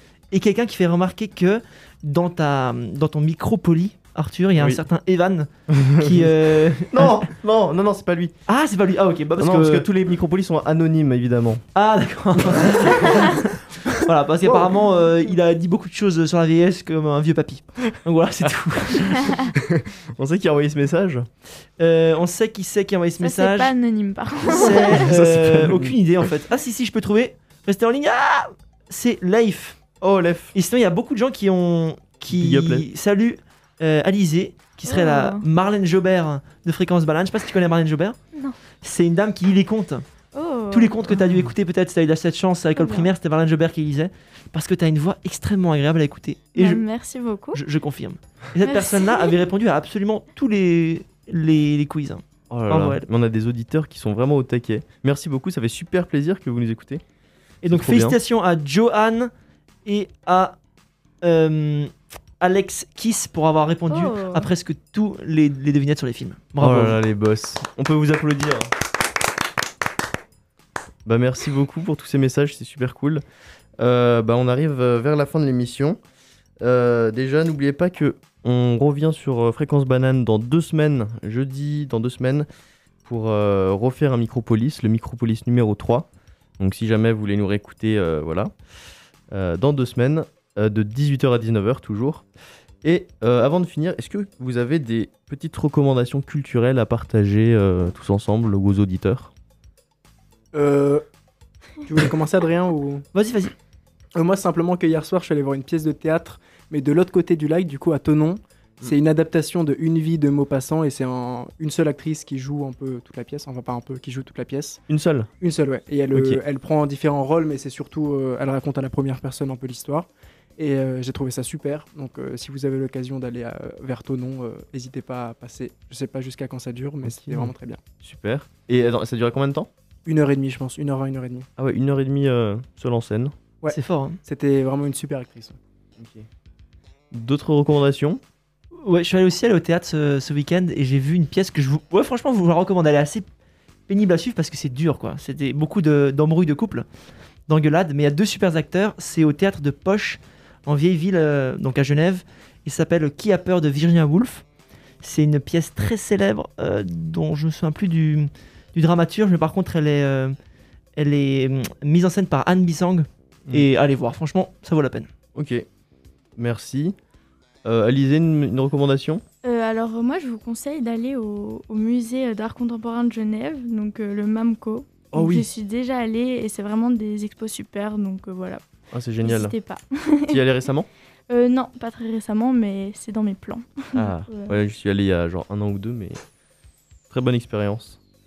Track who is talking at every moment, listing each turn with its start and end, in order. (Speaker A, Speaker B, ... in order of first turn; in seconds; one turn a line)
Speaker A: 0.3-7.3
Speaker B: 5.7-6.3
Speaker B: 6.9-8.4
Speaker A: 8.5-9.9
Speaker B: 9.4-11.6
Speaker A: 11.8-19.3
Speaker B: 12.6-13.1
Speaker B: 19.1-21.2
Speaker A: 21.8-23.7
Speaker C: 23.2-25.1
Speaker A: 24.5-29.8
Speaker B: 24.9-25.9
Speaker B: 30.0-30.5
Speaker A: 30.5-38.2
Speaker B: 32.3-32.9
Speaker C: 34.9-35.4
Speaker A: 38.8-40.0
Speaker C: 40.3-40.9
Speaker A: 40.7-46.8
Speaker C: 42.8-43.1
Speaker C: 46.5-47.6
Speaker A: 47.5-53.1
Speaker C: 48.6-49.4
Speaker B: 52.5-57.0
Speaker A: 57.6-59.3
Speaker B: 57.6-58.2
Speaker A: 59.9-60.6
Speaker A: 61.2-67.0
Speaker C: 63.9-64.5
Speaker B: 66.6-68.7
Speaker B: 71.0-73.2
Speaker B: 73.8-76.0
Speaker B: 76.6-82.5
Speaker B: 83.0-86.1
Speaker B: 86.6-88.5
Speaker B: 89.3-92.2
Speaker B: 92.8-99.3
Speaker D: 100.5-101.0
Speaker D: 101.8-103.0
Speaker A: 103.1-103.5
Speaker D: 104.2-114.8
Speaker B: 114.9-115.3
Speaker D: 115.4-127.8
Speaker B: 116.1-116.4
Speaker B: 127.0-129.7
Speaker D: 130.1-131.5
Speaker B: 131.6-133.3
Speaker D: 133.6-135.6
Speaker A: 133.7-134.2
Speaker B: 136.0-136.3
Speaker B: 137.1-138.2
Speaker A: 138.8-143.3
Speaker A: 143.9-146.8
Speaker A: 147.5-154.5
Speaker A: 155.0-160.3
Speaker A: 161.0-165.1
Speaker B: 165.3-165.7
Speaker B: 166.4-167.0
Speaker B: 167.6-169.2
Speaker C: 169.4-178.6
Speaker B: 175.1-175.5
Speaker B: 178.9-179.6
Speaker C: 179.2-180.4
Speaker B: 180.3-180.9
Speaker C: 181.3-184.6
Speaker B: 183.9-186.2
Speaker B: 187.1-188.0